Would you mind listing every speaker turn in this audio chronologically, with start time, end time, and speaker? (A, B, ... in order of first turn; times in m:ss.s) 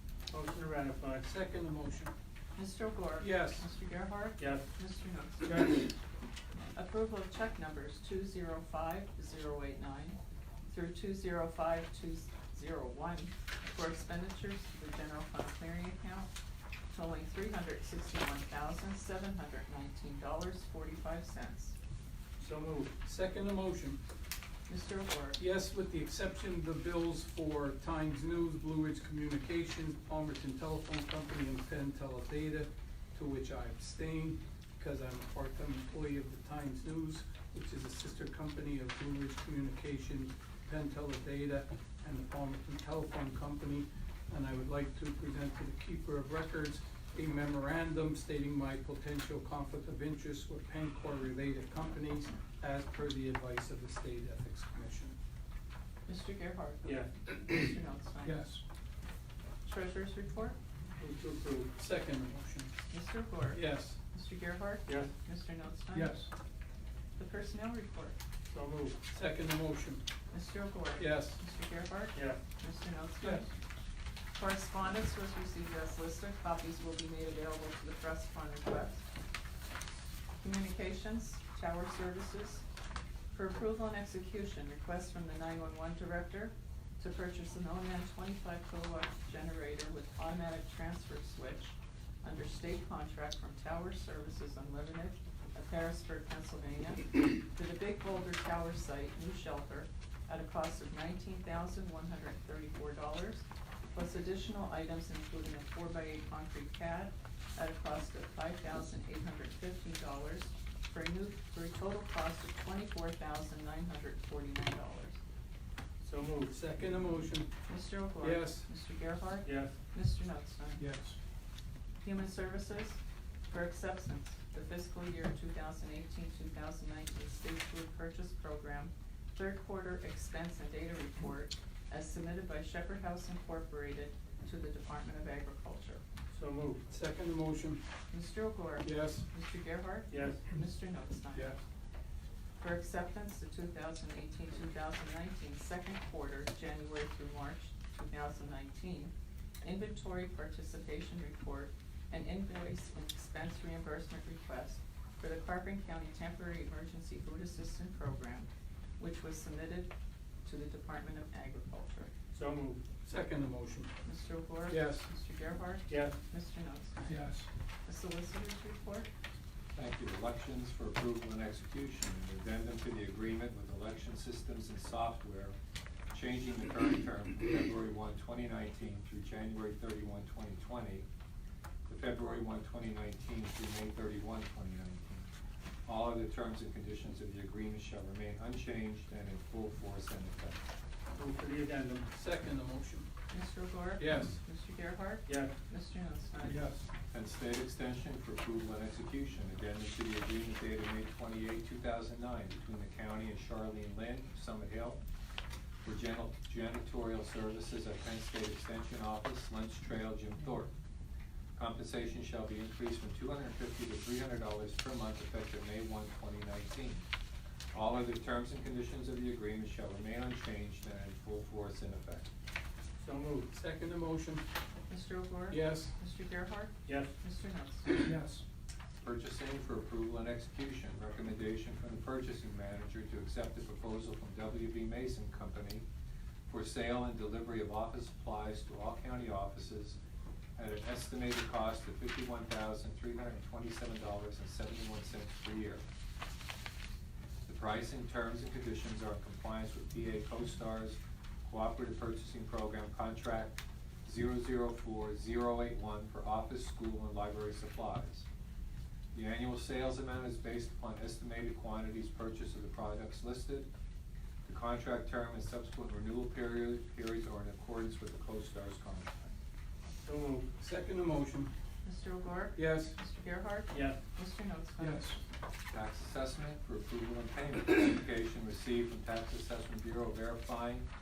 0:00.3-0:01.2 A
0:01.2-0:02.1 B
0:02.6-0:05.7 C
0:03.2-0:03.6 B
0:04.4-0:04.7 A
0:05.4-0:05.9 A
0:06.7-0:16.3 C
0:16.9-0:21.8 C
0:22.4-0:22.9 A
0:23.0-0:24.0 B
0:24.7-0:25.4 C
0:25.4-0:55.1 B
0:56.1-0:58.5 C
0:56.8-0:57.1 A
0:58.2-0:58.6 B
0:59.6-1:00.6 C
1:01.0-1:01.7 A
1:01.8-1:02.8 B
1:02.9-1:06.2 C
1:03.5-1:04.0 B
1:04.8-1:05.1 A
1:05.9-1:06.3 B
1:07.2-1:08.1 C
1:08.5-1:09.0 A
1:09.1-1:10.0 B
1:10.3-1:13.5 C
1:11.0-1:11.4 B
1:12.1-1:12.4 A
1:14.4-1:19.1 C
1:20.4-1:22.6 C
1:23.3-1:55.2 C
1:56.0-1:56.5 A
1:56.5-1:57.5 B
1:57.7-2:00.8 C
1:58.2-1:58.7 B
1:59.4-1:59.7 A
2:00.8-2:01.2 B
2:02.0-2:16.0 C
2:16.3-2:16.8 A
2:16.9-2:17.8 B
2:18.1-2:21.6 C
2:18.8-2:19.2 B
2:20.1-2:20.4 A
2:22.6-2:38.5 C
2:39.0-2:39.9 C
2:40.4-2:42.1 C
2:42.3-2:42.8 A
2:43.0-2:43.9 B
2:44.0-2:47.1 C
2:44.7-2:45.1 B
2:45.9-2:46.2 A
2:47.1-2:47.4 B
2:47.8-2:49.1 C
2:49.7-2:55.5 D
2:56.1-3:01.1 D
3:01.9-3:05.3 D
3:05.8-3:10.6 D
3:11.2-3:12.1 A
3:12.1-3:13.1 B
3:13.3-3:16.7 C
3:14.0-3:14.4 B
3:15.2-3:15.5 A
3:16.4-3:16.8 B
3:17.1-3:25.0 D
3:25.8-3:30.7 D
3:31.6-3:37.0 D
3:37.7-3:42.3 D
3:43.0-3:43.5 A
3:43.5-3:44.4 B
3:44.9-3:47.9 C
3:45.5-3:45.9 B
3:46.8-3:47.1 A
3:48.0-3:48.4 B
3:49.0-3:55.8 D
3:56.5-4:00.0 D
4:00.6-4:05.8 D
4:07.4-4:18.3 D
4:19.1-4:23.7 D
4:24.4-4:29.3 D
4:30.0-4:30.4 A
4:30.6-4:31.5 B
4:31.8-4:35.2 C
4:32.6-4:33.0 B
4:33.7-4:34.0 A
4:34.8-4:35.2 B
4:35.7-4:40.9 D